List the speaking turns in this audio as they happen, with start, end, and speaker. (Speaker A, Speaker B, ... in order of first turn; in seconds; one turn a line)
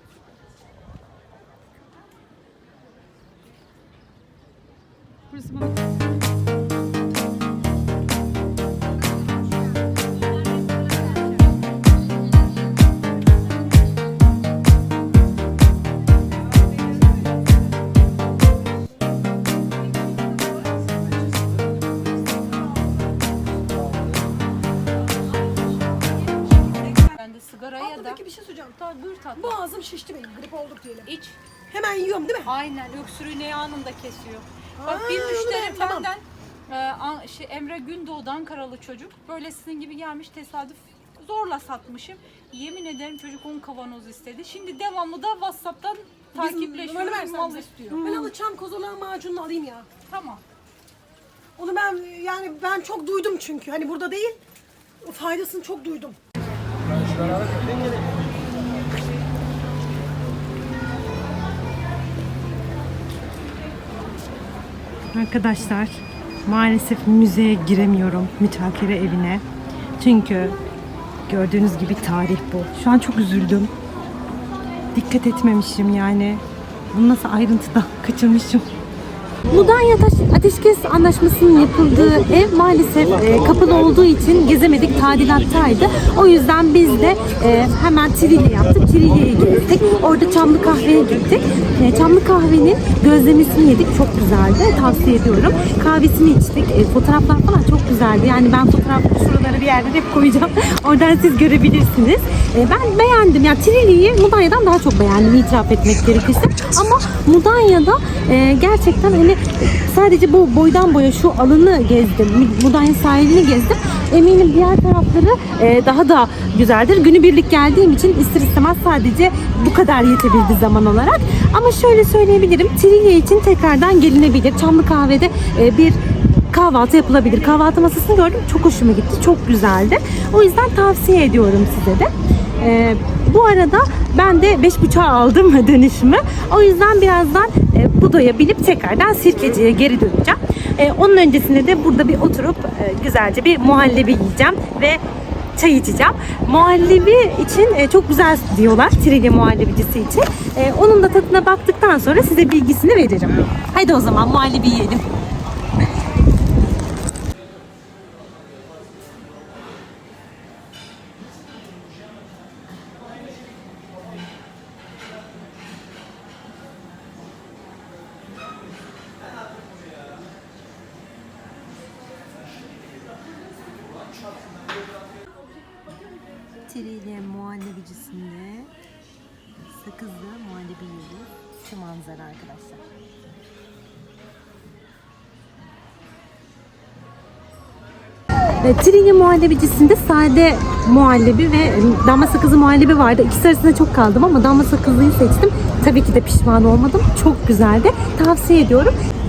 Speaker A: 5.4-5.7
Speaker A: 25.5-28.2
Speaker B: 27.8-31.1
Speaker A: 28.8-29.6
Speaker A: 31.1-31.4
Speaker B: 31.7-32.5
Speaker A: 32.4-48.3
Speaker B: 34.8-36.1
Speaker B: 46.4-49.9
Speaker A: 50.1-50.4
Speaker B: 51.6-54.4
Speaker B: 55.0-56.2
Speaker C: 65.1-69.4
Speaker C: 70.0-70.6
Speaker C: 71.3-73.7
Speaker C: 74.9-78.7
Speaker C: 79.5-126.0
Speaker C: 126.5-145.0
Speaker C: 145.6-155.1
Speaker C: 176.7-178.7
Speaker C: 179.8-182.8
Speaker C: 188.6-199.0